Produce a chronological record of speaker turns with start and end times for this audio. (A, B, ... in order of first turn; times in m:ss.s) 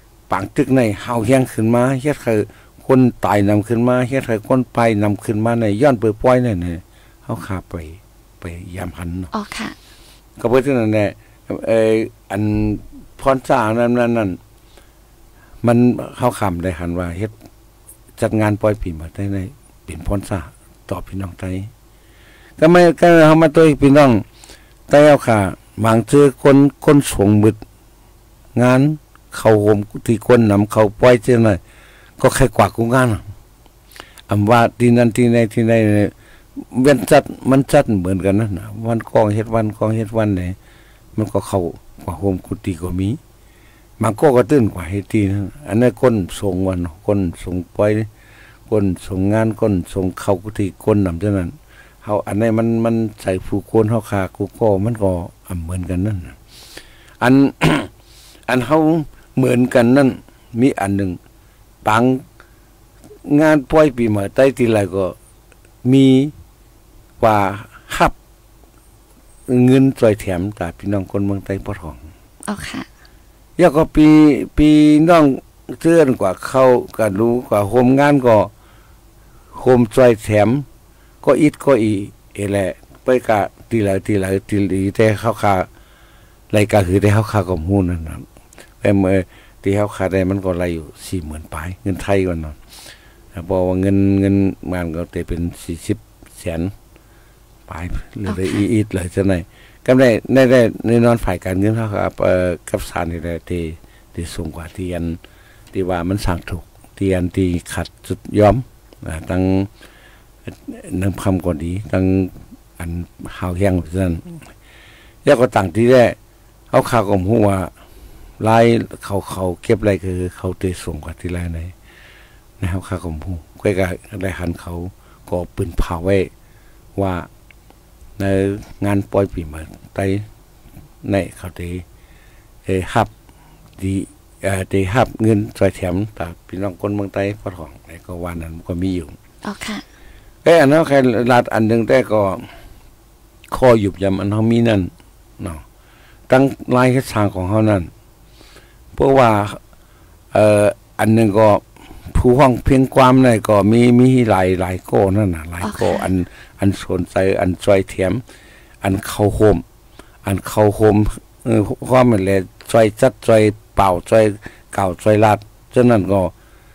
0:00.3-0:09.3 A
0:09.3-0:09.8 B
0:10.4-0:14.4 A
0:15.6-0:17.4 A
0:18.2-0:21.7 A
0:22.6-0:24.2 A
0:24.9-0:27.6 A
0:28.6-0:31.6 A
0:32.2-0:33.2 A
0:34.3-0:40.6 A
0:41.2-0:43.2 A
0:44.0-0:48.1 A
0:48.7-0:56.4 A
0:57.2-0:57.9 A
0:58.5-1:01.2 A
1:01.8-1:02.2 A
1:03.3-1:05.2 A
1:05.8-1:06.3 A
1:07.2-1:08.2 A
1:09.5-1:12.1 A
1:12.5-1:12.9 B
1:13.6-1:18.5 A
1:19.5-1:20.7 A
1:21.2-1:25.7 A
1:26.5-1:28.3 A
1:28.8-1:32.6 A
1:33.3-1:36.7 A
1:37.7-1:45.2 A
1:38.3-1:38.6 B
1:45.7-1:49.7 A
1:50.5-1:54.5 A
1:55.2-1:56.2 A
1:56.7-1:57.7 A
1:58.4-2:01.8 A
2:02.6-2:06.3 A
2:07.0-2:07.3 A
2:08.2-2:10.2 A
2:11.0-2:11.8 A
2:12.6-2:13.1 A
2:13.8-2:19.2 A
2:19.4-2:19.8 B
2:20.4-2:22.5 A
2:23.5-2:25.6 A
2:26.3-2:27.9 A
2:28.9-2:29.6 A
2:30.3-2:38.2 A
2:35.6-2:36.1 B
2:38.8-2:39.6 A
2:40.2-2:46.3 A